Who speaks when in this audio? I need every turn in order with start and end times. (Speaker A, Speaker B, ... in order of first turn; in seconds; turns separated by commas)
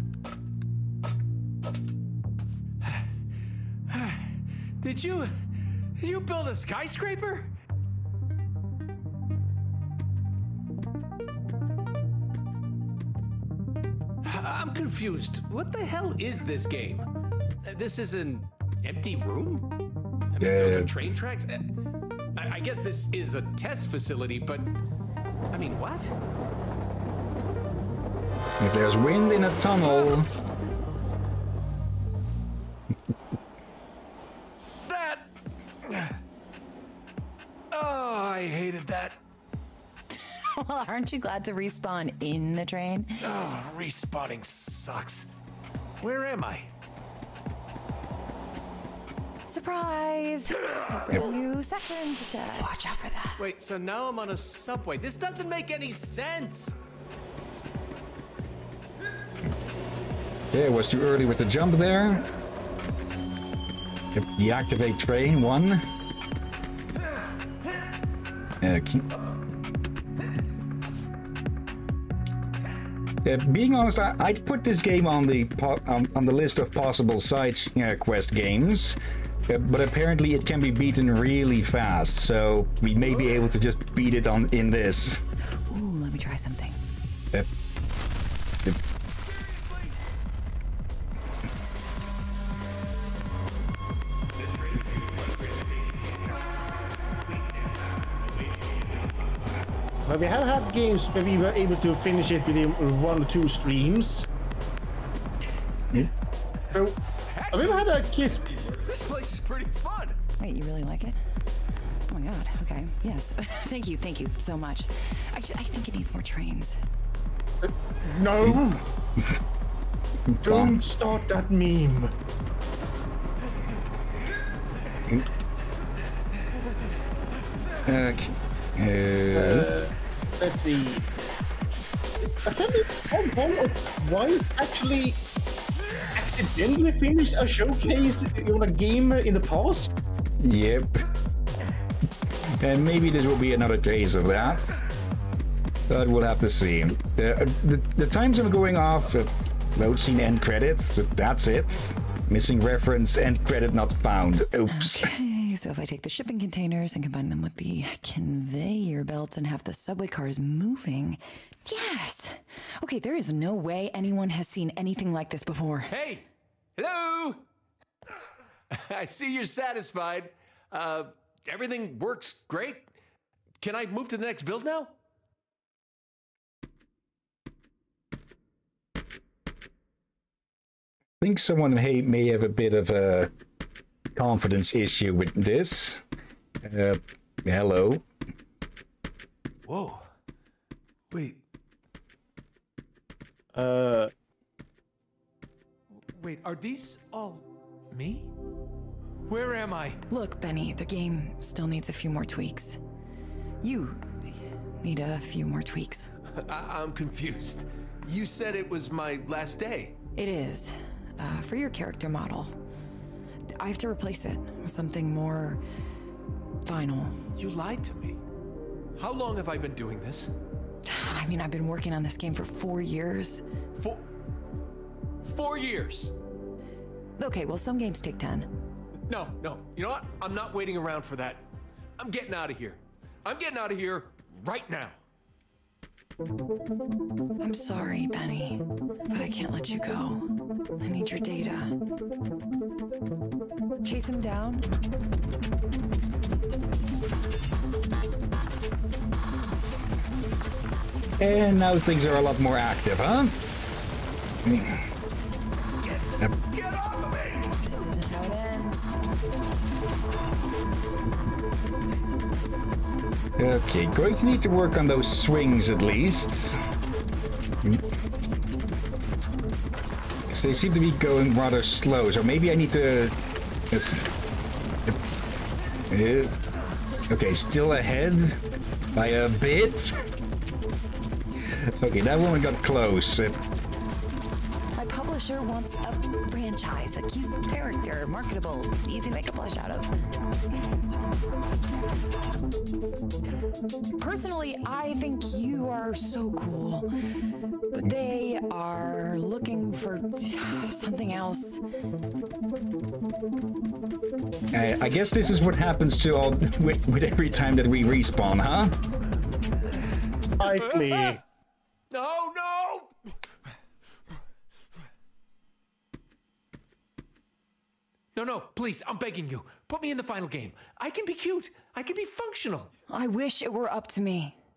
Speaker A: 3.9-4.2, Speaker A: 4.8-5.3, Speaker A: 6.0-7.5, Speaker A: 14.2-17.1, Speaker A: 17.6-19.7, Speaker A: 20.3-21.7, Speaker B: 20.4-20.9, Speaker A: 22.3-24.7, Speaker A: 25.5-26.2, Speaker B: 28.6-30.3, Speaker A: 34.8-35.3, Speaker A: 35.8-36.1, Speaker A: 37.7-39.2, Speaker C: 40.1-43.2, Speaker A: 43.2-45.3, Speaker A: 46.0-46.7, Speaker C: 49.5-53.4, Speaker A: 53.4-56.8, Speaker B: 60.5-62.3, Speaker B: 64.1-65.8, Speaker B: 68.6-69.1, Speaker B: 73.2-85.2, Speaker C: 85.7-86.8, Speaker D: 100.0-104.3, Speaker D: 106.7-107.0, Speaker A: 107.3-108.0, Speaker D: 107.5-108.5, Speaker A: 108.6-110.2, Speaker C: 110.4-111.2, Speaker C: 112.1-116.8, Speaker D: 117.6-118.8, Speaker B: 120.3-120.8, Speaker D: 120.4-122.1, Speaker B: 127.8-129.7, Speaker D: 129.3-131.1, Speaker D: 132.4-135.2, Speaker D: 136.1-139.9, Speaker B: 140.4-141.0, Speaker B: 142.6-144.8, Speaker B: 145.9-155.1, Speaker C: 154.7-165.9, Speaker A: 165.9-166.2, Speaker A: 166.8-167.4, Speaker A: 168.7-172.9, Speaker A: 173.6-174.9, Speaker B: 181.2-183.3, Speaker B: 184.1-186.0, Speaker B: 186.6-188.0, Speaker A: 189.7-190.1, Speaker A: 191.1-191.4, Speaker A: 193.6-194.1, Speaker A: 196.1-198.3, Speaker A: 199.2-200.0, Speaker C: 200.1-202.8, Speaker C: 203.6-204.2, Speaker C: 204.8-206.1, Speaker A: 206.3-210.0, Speaker C: 210.1-212.5, Speaker C: 213.6-215.6, Speaker C: 216.6-217.2, Speaker A: 217.3-218.2, Speaker A: 219.0-220.3, Speaker C: 220.8-223.4, Speaker A: 223.8-224.1, Speaker A: 225.2-226.2, Speaker C: 227.2-228.5, Speaker A: 229.1-231.5, Speaker A: 232.0-235.0, Speaker C: 237.4-240.3, Speaker C: 240.8-241.7, Speaker C: 243.8-244.7, Speaker B: 251.2-253.3, Speaker B: 254.4-254.8, Speaker A: 255.8-257.5, Speaker C: 257.6-258.9, Speaker B: 263.4-266.6, Speaker B: 270.3-273.1, Speaker B: 273.7-274.0, Speaker B: 275.9-276.3, Speaker B: 277.1-278.4, Speaker B: 278.9-279.9, Speaker B: 281.6-283.4, Speaker C: 284.8-289.9, Speaker C: 294.0-296.9, Speaker C: 297.7-301.6, Speaker B: 304.5-308.8, Speaker D: 310.4-311.2, Speaker A: 310.4-311.2, Speaker A: 311.9-312.9, Speaker A: 318.1-322.7, Speaker C: 322.9-324.4